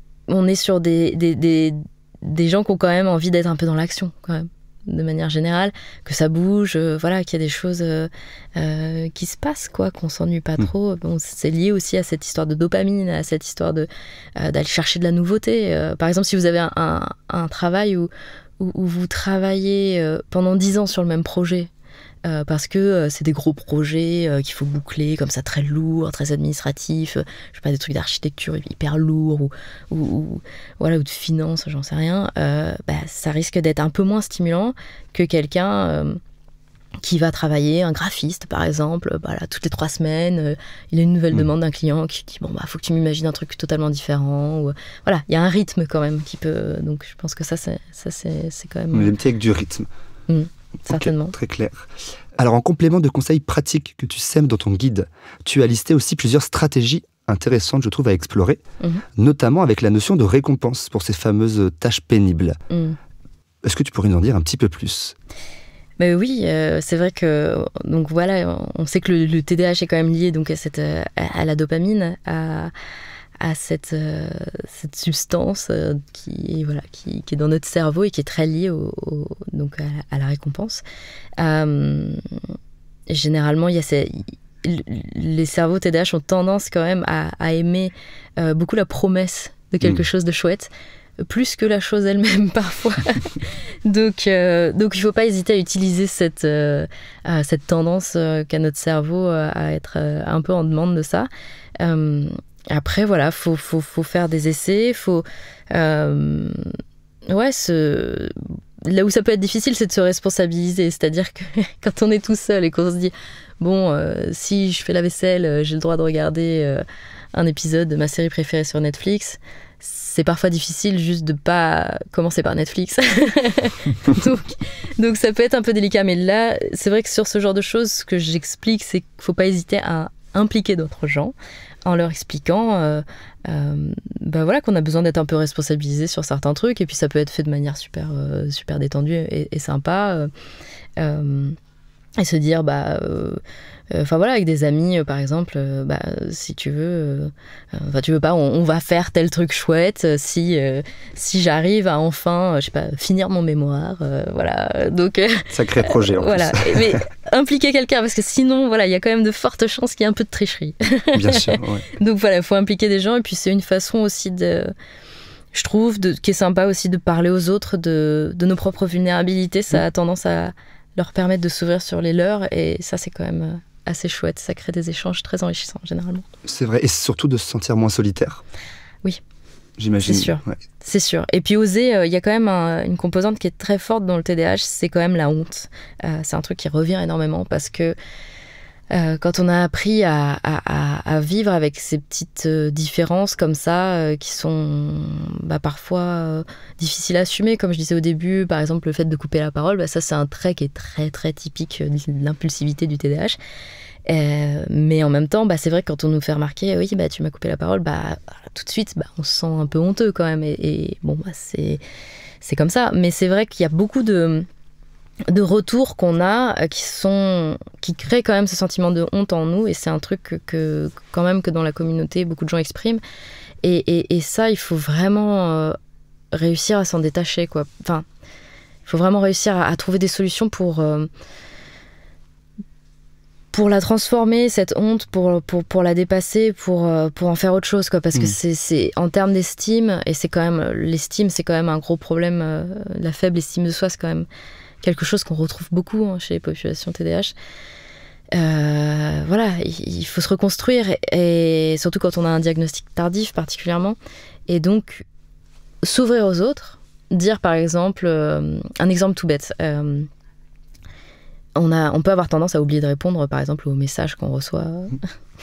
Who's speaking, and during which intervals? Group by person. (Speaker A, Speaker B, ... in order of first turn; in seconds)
Speaker A: 0.3-21.7, 22.2-36.2, 37.0-49.1, 50.3-51.3, 62.7-63.0, 66.0-72.7, 73.4-80.8, 81.4-82.4, 83.1-90.7, 91.2-101.3, 101.8-106.7, 107.3-140.3, 141.0-141.6, 142.2-164.7, 165.5-176.3, 180.0-188.0, 188.9-203.4, 204.1-211.8, 212.4-214.5, 215.3-223.0, 223.6-225.8, 226.3-228.1, 228.9-231.1, 233.5-244.3, 244.8-247.3, 248.3-254.0, 254.5-255.1, 255.8-260.1, 261.6-265.0
Speaker B: 48.9-49.9, 50.9-58.6, 59.2-62.6, 63.6-65.2, 155.5-157.0, 161.1-161.8, 176.4-178.4, 179.8-180.6